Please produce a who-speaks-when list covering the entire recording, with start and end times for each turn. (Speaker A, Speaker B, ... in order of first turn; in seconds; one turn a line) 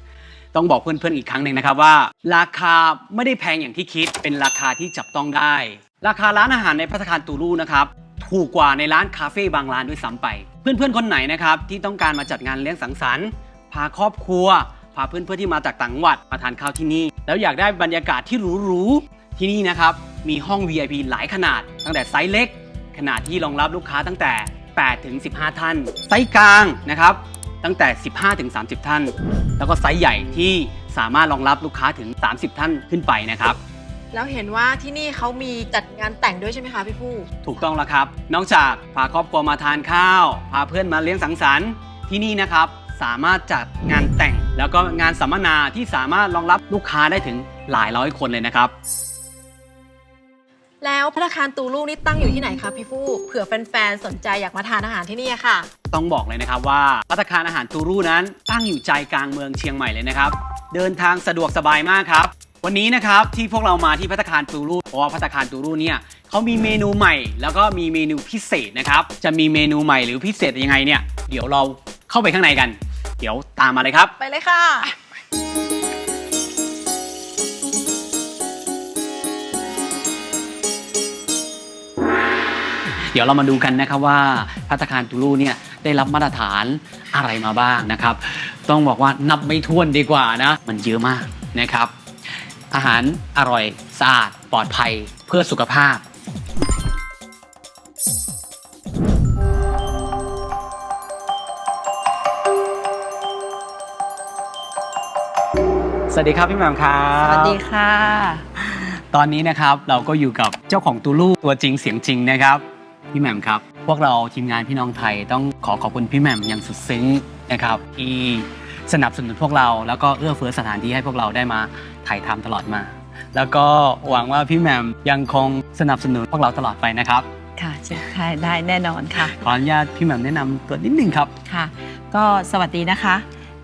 Speaker A: 0.5-33.6
Speaker B: 34.1-37.3
Speaker A: 37.4-48.7
Speaker B: 50.8-55.7
Speaker A: 55.9-74.1
Speaker B: 74.2-74.9
Speaker A: 83.1-91.9
Speaker A: 92.7-96.0
Speaker A: 106.1-107.6
Speaker C: 107.2-108.8
Speaker A: 109.1-127.3
Speaker C: 127.6-129.3
Speaker A: 129.3-131.3
Speaker C: 131.5-133.2